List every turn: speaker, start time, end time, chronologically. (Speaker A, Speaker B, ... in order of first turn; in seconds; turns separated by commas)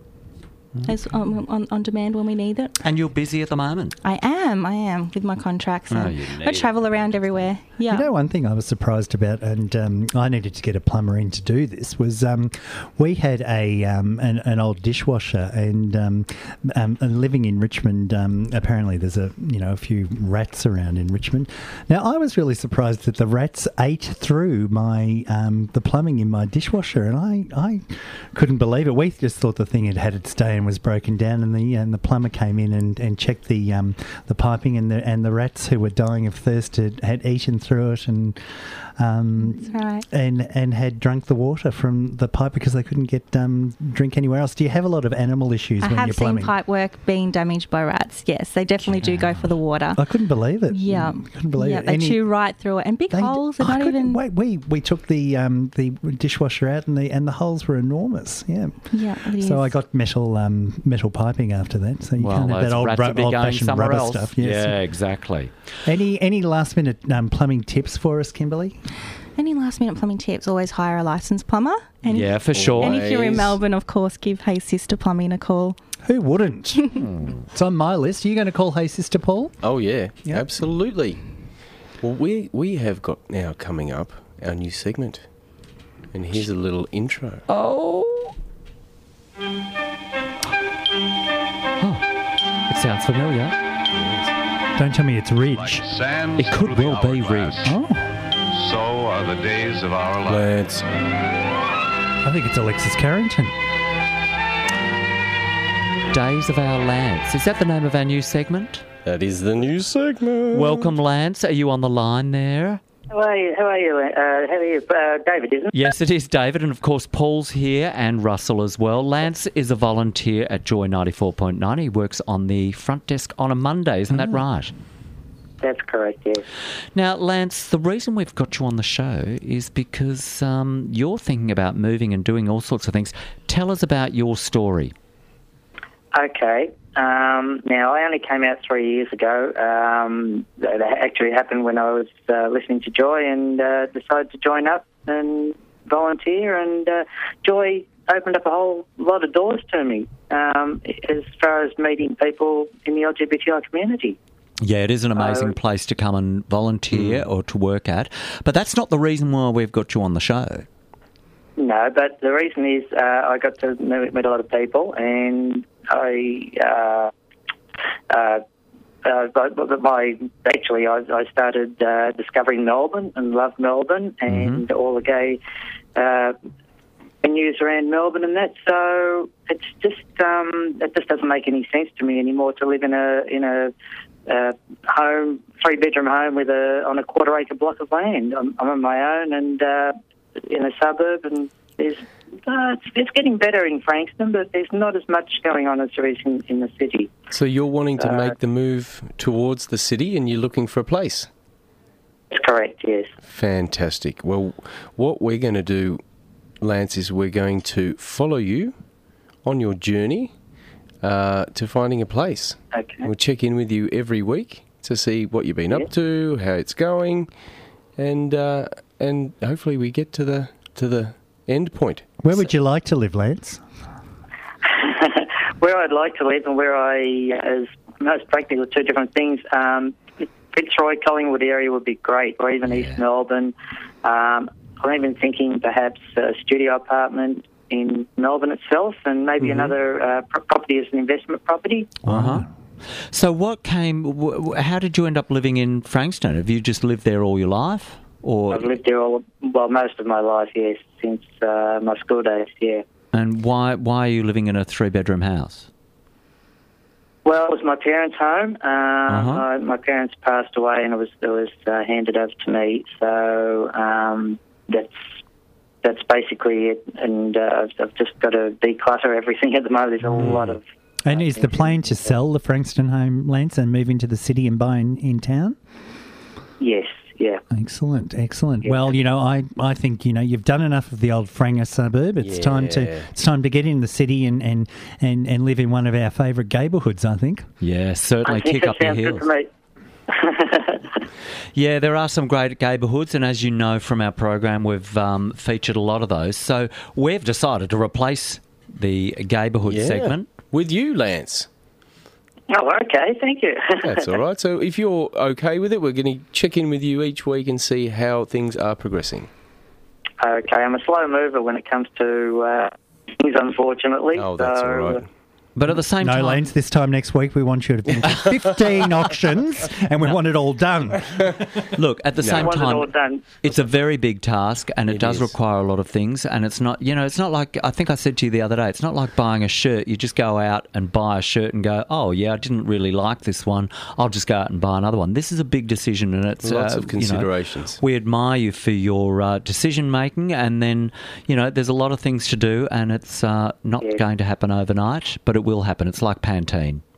Speaker A: 0.9-2.8, Speaker B: 2.8-4.0, Speaker A: 4.0-8.1, Speaker B: 5.9-7.0, Speaker C: 7.9-46.5, Speaker A: 39.4-40.1, Speaker A: 45.8-50.0, Speaker C: 50.0-52.2, Speaker A: 50.7-54.2, Speaker C: 53.1-64.8, Speaker A: 58.9-59.8, Speaker B: 62.2-65.5, Speaker C: 65.8-68.8, Speaker A: 69.4-75.8, Speaker B: 72.1-73.0, Speaker D: 72.5-73.6, Speaker C: 76.0-77.0, Speaker B: 77.0-77.4, Speaker C: 77.5-79.6, Speaker D: 79.6-81.2, Speaker D: 82.0-85.2, Speaker D: 86.1-87.5, Speaker B: 87.5-88.3, Speaker B: 91.8-92.0, Speaker B: 92.7-93.6, Speaker D: 93.9-94.3, Speaker C: 94.8-95.8, Speaker E: 95.5-97.7, Speaker B: 96.4-97.6, Speaker C: 97.6-98.2, Speaker E: 98.5-100.5, Speaker D: 100.3-100.9, Speaker C: 102.2-103.6, Speaker B: 106.1-108.8, Speaker D: 109.0-110.9, Speaker B: 110.5-112.8, Speaker F: 113.1-115.7, Speaker B: 115.7-124.7, Speaker F: 125.6-126.4, Speaker B: 127.0-134.9, Speaker F: 136.1-154.2, Speaker B: 154.6-160.7, Speaker F: 155.2-155.5, Speaker D: 156.9-157.2, Speaker F: 161.6-167.1, Speaker F: 168.1-168.4, Speaker F: 169.0-175.4, Speaker B: 174.3-174.7, Speaker F: 175.9-176.3, Speaker F: 177.2-183.7, Speaker F: 184.3-197.2, Speaker D: 197.3-201.3, Speaker F: 198.0-198.3, Speaker F: 202.3-203.1, Speaker D: 203.2-206.0, Speaker D: 206.6-208.8, Speaker D: 209.4-210.3, Speaker D: 211.0-217.3, Speaker F: 212.7-213.1, Speaker D: 218.0-222.2, Speaker C: 222.2-223.6, Speaker F: 224.7-242.0, Speaker B: 232.6-233.0, Speaker B: 239.4-239.7, Speaker B: 242.1-242.5, Speaker C: 242.1-242.5, Speaker B: 243.1-248.8, Speaker F: 248.5-252.8, Speaker B: 253.1-255.7, Speaker F: 257.2-264.9, Speaker B: 259.1-259.4, Speaker F: 265.8-271.8, Speaker C: 270.1-270.5, Speaker C: 271.1-275.6, Speaker F: 276.6-277.4, Speaker C: 277.5-287.5, Speaker D: 282.2-283.1, Speaker B: 287.6-289.2, Speaker F: 288.2-289.5, Speaker F: 290.1-291.0, Speaker B: 291.6-300.3, Speaker D: 299.7-301.5, Speaker F: 302.5-304.1, Speaker D: 303.8-309.3, Speaker F: 310.2-315.0, Speaker D: 314.1-315.0, Speaker B: 315.6-316.4, Speaker C: 315.7-321.4, Speaker B: 321.7-346.8, Speaker D: 322.2-322.6, Speaker F: 322.3-323.4, Speaker D: 324.9-325.3, Speaker D: 336.4-337.8